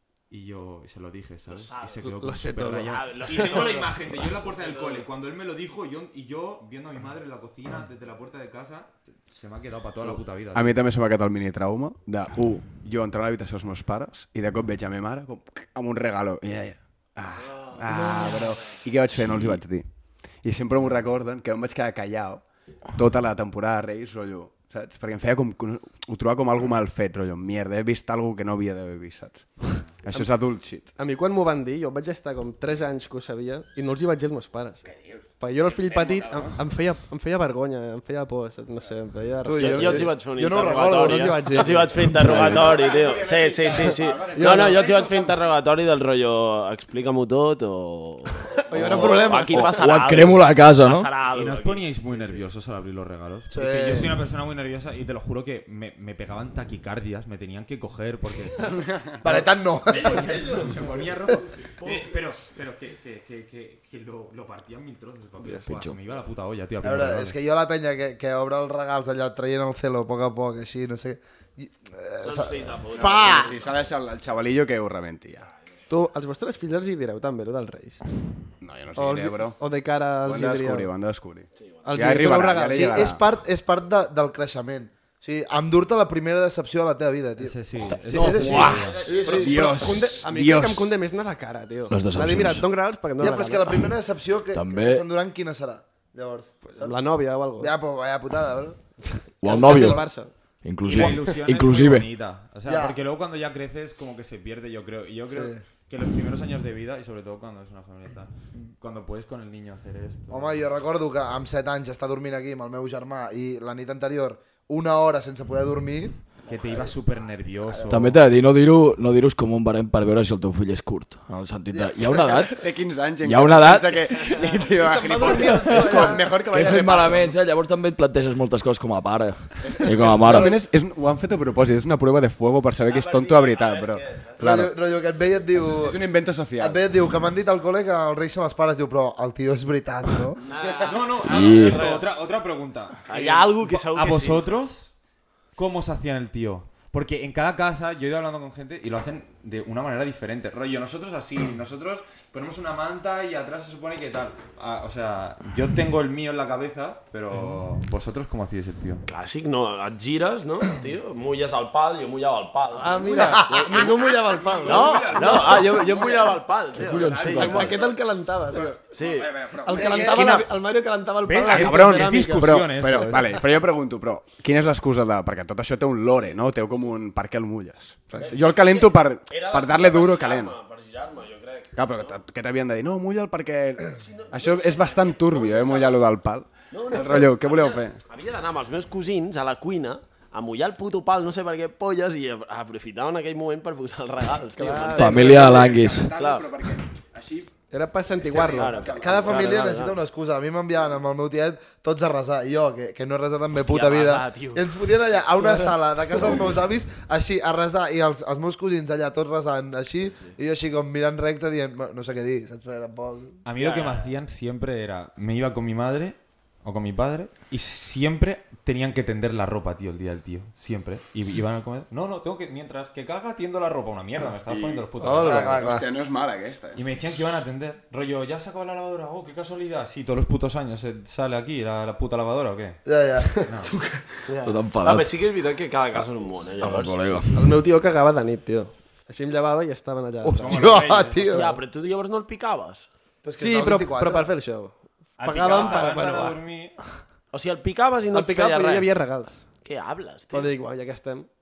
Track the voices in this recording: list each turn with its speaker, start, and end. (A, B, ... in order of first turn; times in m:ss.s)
0:00.3-0:10.8 A
0:01.5-0:05.1 B
0:02.0-0:03.7 C
0:10.0-0:30.9 D
0:18.0-0:18.3 C
0:30.1-0:40.1 C
0:34.9-0:35.2 D
0:35.9-0:36.6 D
0:35.9-0:36.3 B
0:39.4-0:41.6 E
0:39.6-0:52.5 B
0:40.9-0:42.3 C
0:42.0-0:42.8 F
0:42.3-0:45.5 D
0:44.3-0:44.8 C
0:48.7-0:49.7 C
0:48.7-0:49.3 D
0:49.5-0:51.1 F
0:51.3-1:07.4 A
0:53.5-0:54.1 E
0:59.2-1:01.0 E
1:01.7-1:02.1 B
1:05.4-1:06.0 F
1:06.8-1:13.5 E
1:12.2-1:13.9 B
1:12.9-1:15.5 D
1:15.9-1:18.0 C
1:18.6-1:19.6 D
1:19.0-1:20.9 C
1:20.2-1:23.2 D
1:21.6-1:21.9 B
1:21.8-1:23.1 C
1:22.7-1:27.6 E
1:27.4-1:29.1 A
1:28.1-1:29.6 E
1:28.1-1:33.8 C
1:28.2-1:30.2 B
1:29.2-1:30.9 D
1:31.9-1:32.7 F
1:33.2-1:37.0 E
1:34.5-1:35.0 F
1:36.6-1:37.7 C
1:37.6-1:38.8 E
1:39.4-1:40.1 F
1:39.4-1:40.3 C
1:39.4-1:40.0 E
1:40.6-1:42.1 F
1:40.8-1:50.6 A
1:42.6-1:43.0 E
1:45.3-1:45.6 E
1:50.3-1:56.2 E
1:56.5-1:58.2 A
1:57.9-2:02.6 F
2:01.7-2:02.5 E
2:02.5-2:07.4 D
2:03.2-2:04.0 F
2:04.7-2:06.2 C
2:05.3-2:06.3 E
2:06.4-2:10.6 F
2:09.6-2:14.8 D
2:12.8-2:14.4 B
2:14.4-2:20.4 E
2:15.5-2:16.8 D
2:20.4-2:22.1 B
2:20.6-2:24.9 A
2:21.2-2:21.9 F
2:23.0-2:24.5 B
2:25.6-2:39.0 A
2:39.1-2:48.0 B
2:42.8-2:48.8 C
2:43.4-2:43.6 E
2:44.3-2:45.8 A
2:46.7-2:47.8 F
2:48.5-2:50.5 D
2:48.9-2:50.4 B
2:49.6-2:52.6 C
2:49.8-2:50.3 E
2:51.2-2:53.4 A
2:51.5-3:00.6 D
2:58.2-3:02.2 B
3:01.7-3:08.0 D
3:03.9-3:06.0 B
3:06.7-3:16.5 B
3:14.5-3:15.4 C
3:14.9-3:16.1 F
3:15.1-3:17.5 D
3:17.7-3:18.8 C
3:18.1-3:19.8 D
3:18.3-3:20.0 B
3:18.9-3:33.4 E
3:23.5-3:24.8 B
3:30.0-3:30.4 B
3:33.4-3:45.6 A
3:33.6-3:34.1 B
3:44.5-3:46.8 D
3:45.0-3:45.5 C
3:45.2-3:45.8 E
3:46.7-3:52.8 A
3:52.8-3:53.4 E
3:53.3-3:53.7 A
3:54.3-3:57.3 B
3:54.4-3:55.1 F
3:56.6-3:57.3 F
3:57.3-4:00.7 C
4:00.2-4:01.6 E
4:00.4-4:01.5 A
4:01.2-4:02.9 B
4:03.2-4:04.3 E
4:03.4-4:06.4 C
4:05.2-4:06.8 A
4:05.4-4:05.9 B
4:07.3-4:08.9 B
4:08.1-4:09.4 C
4:09.6-4:10.5 B
4:10.3-4:11.3 C